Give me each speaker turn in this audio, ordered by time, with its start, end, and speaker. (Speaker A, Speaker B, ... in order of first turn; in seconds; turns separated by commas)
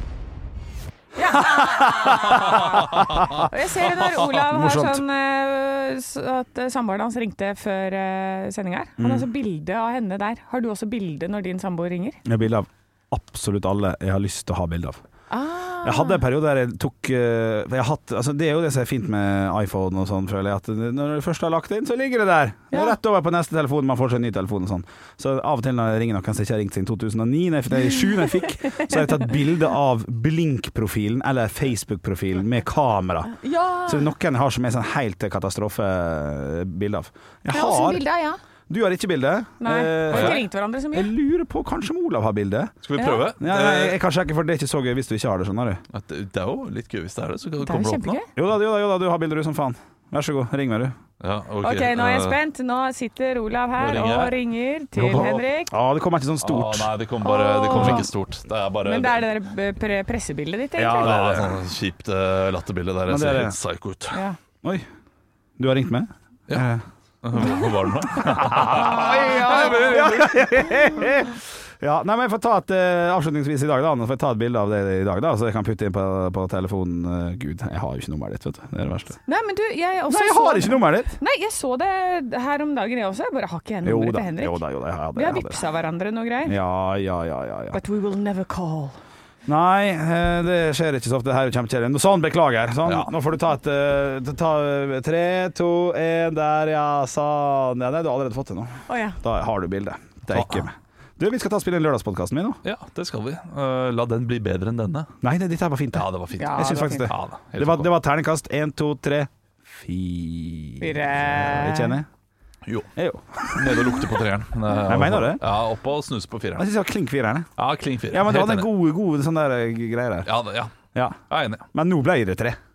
Speaker A: 1.1-12.2, Speaker B: 1.4-3.5, Speaker B: 4.4-5.0, Speaker B: 9.0-9.3, Speaker B: 12.2-15.0, Speaker A: 15.3-16.2, Speaker B: 15.8-38.0, Speaker A: 22.7-23.0, Speaker A: 27.9-29.3, Speaker A: 33.3-34.1, Speaker A: 37.5-38.4, Speaker B: 38.7-42.7, Speaker A: 39.6-41.1, Speaker C: 40.1-40.4, Speaker C: 42.8-44.0, Speaker A: 43.0-43.2, Speaker B: 43.4-45.8, Speaker C: 45.9-48.2, Speaker A: 47.6-48.3, Speaker B: 48.4-51.0, Speaker C: 51.2-52.4, Speaker A: 51.6-55.7, Speaker C: 53.8-54.4, Speaker C: 55.0-55.3, Speaker B: 55.0-56.9, Speaker C: 56.4-59.2, Speaker A: 57.2-58.1, Speaker B: 57.7-58.0, Speaker A: 58.8-61.1, Speaker B: 60.8-61.6, Speaker C: 61.0-64.2, Speaker B: 63.1-63.5, Speaker A: 64.1-64.4, Speaker B: 65.6-66.8, Speaker C: 67.2-70.3, Speaker A: 67.4-67.7, Speaker B: 68.3-79.2, Speaker A: 68.5-70.7, Speaker A: 79.2-84.6, Speaker B: 80.1-81.2, Speaker B: 83.8-85.6, Speaker A: 85.1-86.6, Speaker B: 86.4-87.8, Speaker A: 87.7-89.0, Speaker B: 89.5-102.6, Speaker A: 98.9-99.2, Speaker C: 100.3-100.6, Speaker C: 102.6-105.1, Speaker B: 105.2-112.1, Speaker C: 105.9-107.9, Speaker A: 106.3-107.1, Speaker A: 110.8-112.0, Speaker B: 113.0-114.0, Speaker C: 113.5-116.7, Speaker B: 114.8-115.4, Speaker B: 116.6-117.5, Speaker C: 117.6-118.7, Speaker B: 118.1-120.3, Speaker C: 120.2-120.7, Speaker C: 121.3-121.7, Speaker B: 121.7-122.6